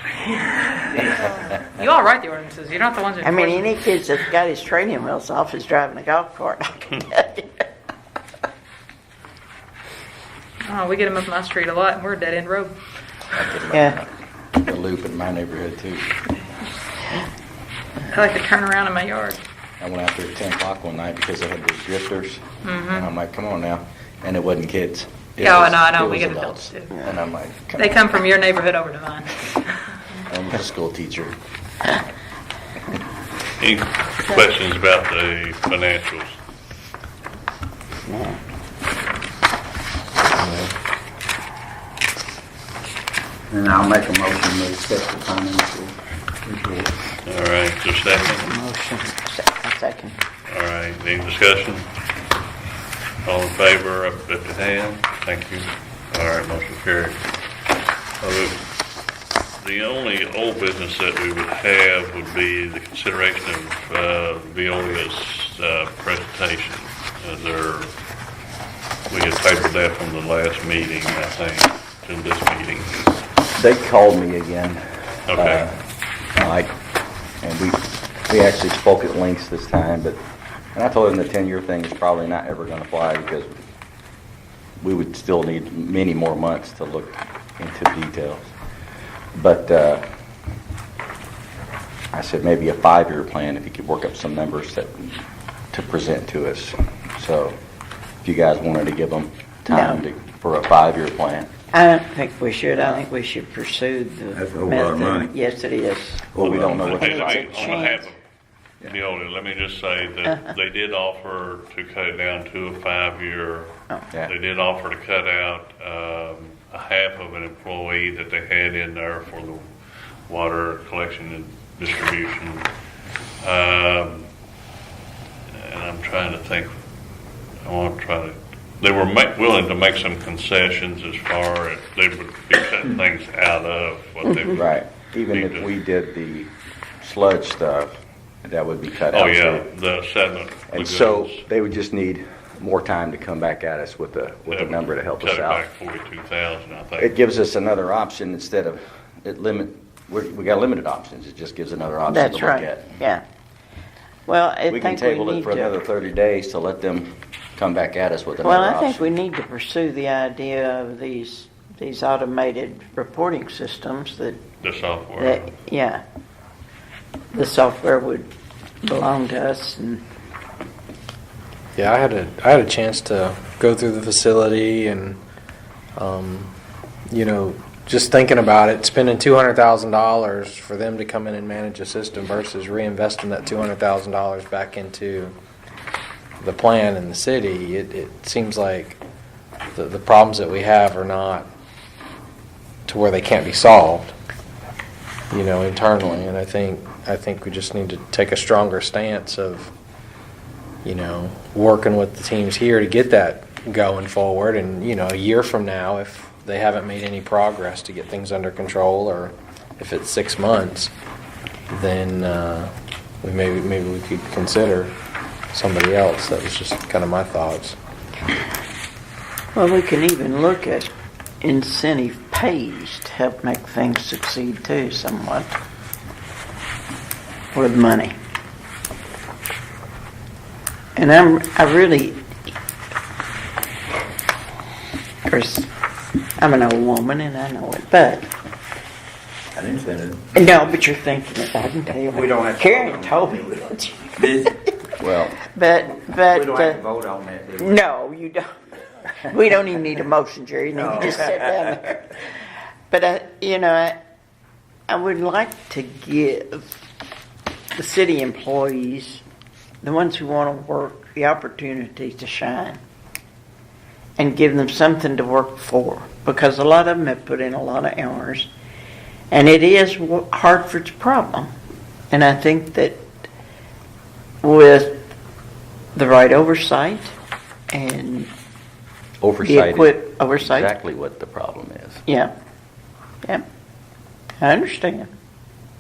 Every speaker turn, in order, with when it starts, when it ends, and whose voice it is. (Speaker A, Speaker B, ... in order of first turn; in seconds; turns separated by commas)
Speaker A: 1.8-3.8, Speaker B: 3.2-7.6, Speaker A: 10.6-12.8, Speaker C: 13.3-16.1, Speaker B: 13.7-14.0, Speaker A: 18.1-19.4, Speaker C: 19.8-28.2, Speaker A: 22.6-23.1, Speaker A: 25.4-26.9, Speaker A: 27.8-30.2, Speaker C: 30.3-31.4, Speaker D: 33.6-36.4, Speaker B: 38.0-38.4, Speaker E: 40.3-40.8, Speaker F: 43.5-46.9, Speaker D: 47.2-48.5, Speaker B: 48.1-50.2, Speaker D: 50.5-51.9, Speaker D: 53.2-57.2, Speaker D: 58.2-58.6, Speaker D: 59.6-67.9, Speaker D: 69.1-73.0, Speaker C: 73.5-74.8, Speaker D: 75.3-75.7, Speaker C: 75.3-75.8, Speaker C: 76.4-76.7, Speaker C: 77.4-80.2, Speaker C: 80.7-83.5, Speaker C: 84.8-88.5, Speaker C: 89.3-90.0, Speaker C: 92.1-97.6, Speaker C: 98.2-101.5, Speaker B: 99.7-100.0, Speaker B: 101.7-106.3, Speaker F: 104.4-105.3, Speaker C: 106.3-107.6, Speaker F: 106.4-106.9, Speaker B: 106.8-108.1, Speaker D: 106.8-108.2, Speaker D: 108.8-119.7, Speaker D: 120.2-122.7, Speaker D: 123.4-124.3, Speaker D: 125.5-126.7, Speaker D: 127.6-135.7, Speaker C: 134.6-139.7, Speaker D: 139.1-141.4, Speaker C: 140.7-145.7, Speaker D: 144.5-147.1, Speaker C: 147.0-152.9, Speaker B: 152.1-153.2, Speaker B: 154.3-155.7, Speaker C: 154.7-159.1, Speaker B: 158.4-164.4, Speaker D: 164.6-165.5, Speaker B: 165.2-166.0, Speaker B: 167.3-168.3, Speaker B: 168.8-170.0, Speaker E: 171.8-175.2, Speaker E: 176.0-176.6, Speaker E: 177.1-185.3, Speaker E: 186.4-189.0, Speaker E: 189.7-191.5, Speaker E: 192.9-194.2, Speaker E: 195.3-199.7, Speaker E: 200.8-210.9, Speaker E: 211.7-215.0, Speaker E: 215.5-217.8, Speaker B: 219.5-225.6, Speaker B: 227.5-228.2, Speaker B: 231.0-232.2, Speaker B: 235.3-235.7, Speaker B: 236.4-238.3, Speaker F: 239.6-240.3, Speaker B: 240.3-244.2, Speaker F: 242.1-244.5, Speaker C: 245.0-245.4, Speaker B: 245.4-246.8, Speaker F: 246.3-247.8, Speaker B: 247.6-248.5, Speaker B: 249.2-252.2, Speaker F: 250.8-251.1, Speaker B: 252.9-254.0, Speaker B: 254.9-256.7, Speaker B: 257.8-259.2, Speaker B: 259.8-262.8, Speaker B: 264.2-268.5, Speaker B: 269.3-271.5, Speaker B: 272.1-273.0, Speaker B: 274.4-275.1, Speaker B: 275.9-277.1, Speaker B: 277.7-278.3, Speaker C: 279.2-282.0, Speaker B: 279.4-280.7, Speaker B: 284.4-285.1